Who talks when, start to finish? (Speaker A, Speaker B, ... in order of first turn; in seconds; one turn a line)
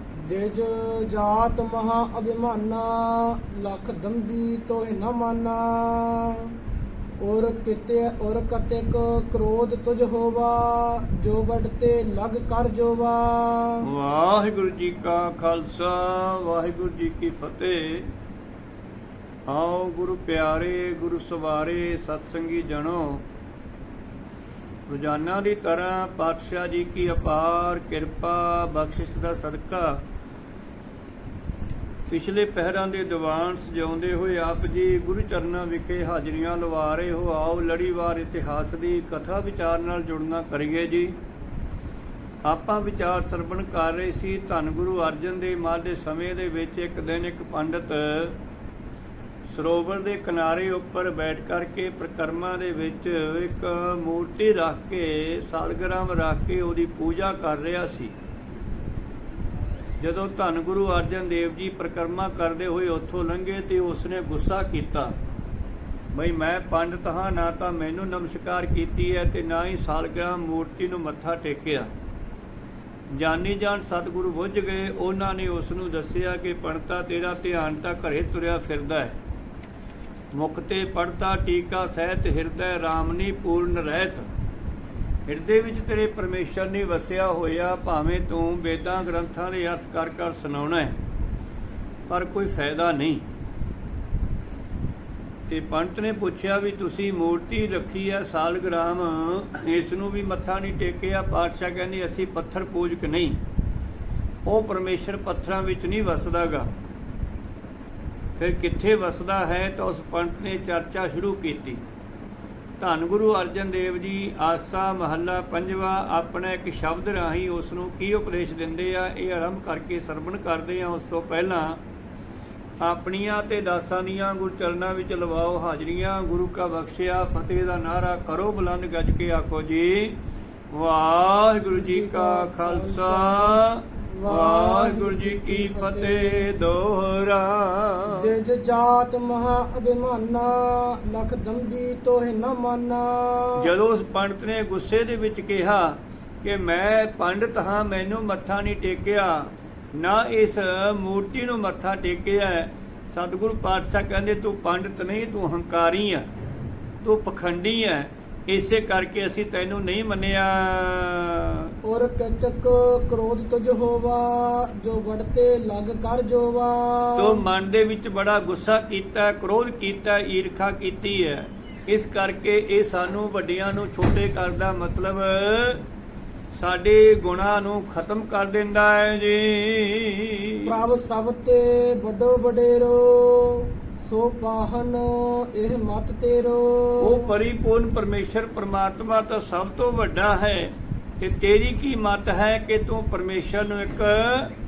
Speaker A: 0.2-6.5
Speaker A: 7.2-13.8
Speaker B: 13.8-18.1
Speaker B: 19.5-23.2
Speaker B: 24.9-30.0
Speaker B: 32.1-41.1
Speaker B: 42.5-48.4
Speaker B: 49.5-58.1
Speaker B: 60.0-65.2
Speaker B: 66.1-71.9
Speaker B: 73.1-79.2
Speaker B: 80.3-84.3
Speaker B: 85.3-91.0
Speaker B: 92.1-93.2
Speaker B: 95.5-103.4
Speaker B: 104.5-106.7
Speaker B: 108.4-111.8
Speaker B: 112.8-121.8
Speaker B: 122.8-130.2
Speaker B: 130.7-138.3
Speaker A: 131.8-133.6
Speaker A: 134.1-136.5
Speaker A: 138.2-143.7
Speaker B: 143.6-156.3
Speaker B: 157.0-161.7
Speaker A: 161.8-167.4
Speaker B: 167.2-175.8
Speaker B: 176.5-180.7
Speaker A: 180.6-187.2
Speaker B: 187.0-194.5